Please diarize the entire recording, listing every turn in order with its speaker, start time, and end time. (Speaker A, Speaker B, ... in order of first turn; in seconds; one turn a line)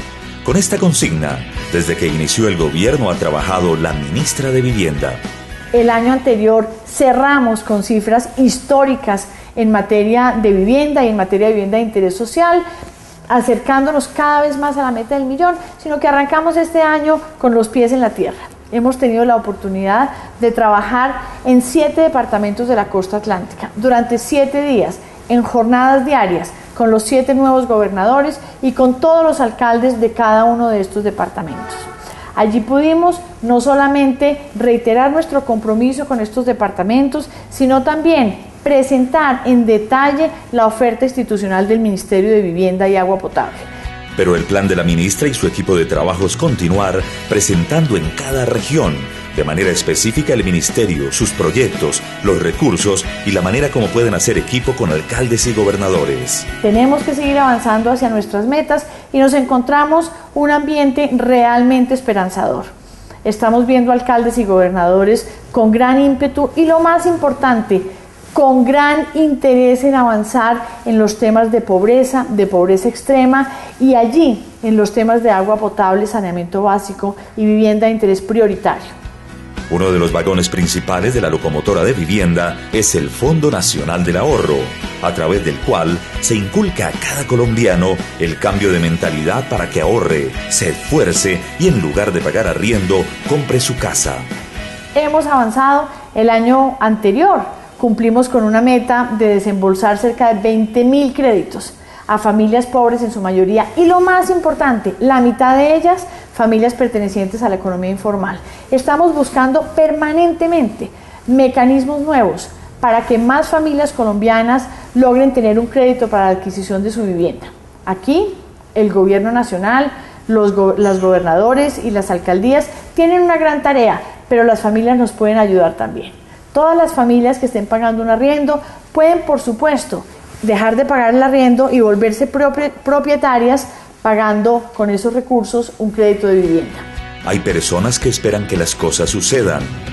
Speaker A: 0.4-5.2
Speaker B: 5.7-12.6
Speaker B: 13.3-43.7
Speaker A: 44.2-56.5
Speaker B: 56.6-62.7
Speaker B: 63.2-78.9
Speaker A: 79.7-94.3
Speaker B: 95.0-136.8
Speaker A: 137.2-139.7